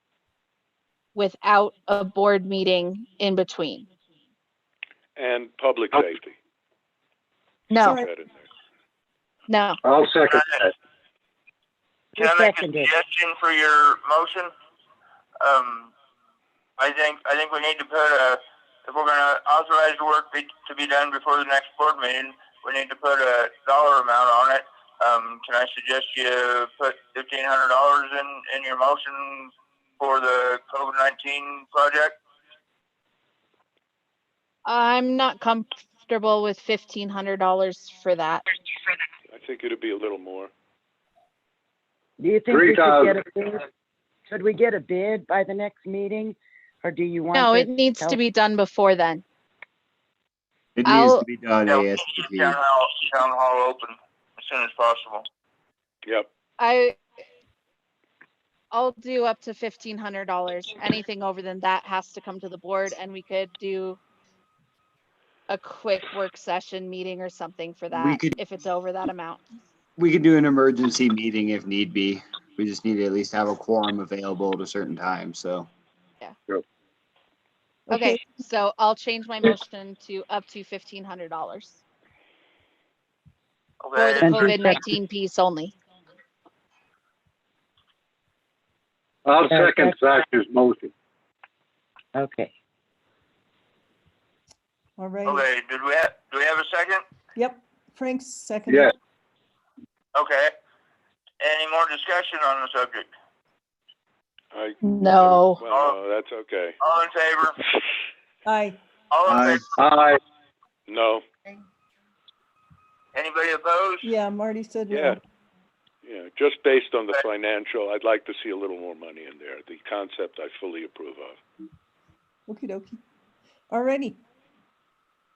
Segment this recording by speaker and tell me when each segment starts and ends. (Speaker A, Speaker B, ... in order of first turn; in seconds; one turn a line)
Speaker A: 1.1-3.9
Speaker B: 5.2-6.4
Speaker A: 7.7-8.0
Speaker C: 7.8-8.1
Speaker B: 7.9-8.5
Speaker A: 9.5-9.8
Speaker D: 9.8-10.7
Speaker E: 12.2-12.9
Speaker F: 12.2-14.5
Speaker F: 15.4-15.9
Speaker F: 16.8-32.2
Speaker A: 34.7-38.4
Speaker B: 39.3-40.5
Speaker E: 42.2-43.6
Speaker D: 42.5-43.3
Speaker E: 44.3-48.2
Speaker A: 47.3-49.2
Speaker G: 50.8-52.6
Speaker A: 50.8-51.2
Speaker F: 51.7-55.3
Speaker A: 56.6-57.0
Speaker A: 58.7-64.0
Speaker A: 65.5-69.4
Speaker G: 67.9-68.3
Speaker G: 70.0-75.7
Speaker C: 77.9-78.2
Speaker A: 77.9-81.8
Speaker F: 83.8-84.4
Speaker A: 83.9-85.7
Speaker E: 84.2-84.8
Speaker D: 89.2-90.9
Speaker E: 89.4-90.0
Speaker E: 92.1-92.5
Speaker C: 95.0-95.4
Speaker F: 95.2-97.0
Speaker C: 97.3-98.9
Speaker D: 98.7-98.9
Speaker F: 100.1-100.5
Speaker F: 101.4-103.1
Speaker B: 104.5-106.8
Speaker A: 104.8-105.6
Speaker F: 105.7-106.0
Speaker F: 106.8-107.6
Speaker C: 108.4-108.8
Speaker F: 109.1-109.7
Speaker G: 109.2-109.6
Speaker D: 109.8-110.2
Speaker B: 110.9-111.2
Speaker F: 113.1-114.1
Speaker C: 114.0-115.2
Speaker B: 114.9-115.2
Speaker B: 116.0-121.4
Speaker C: 122.5-123.0
Speaker C: 123.7-124.2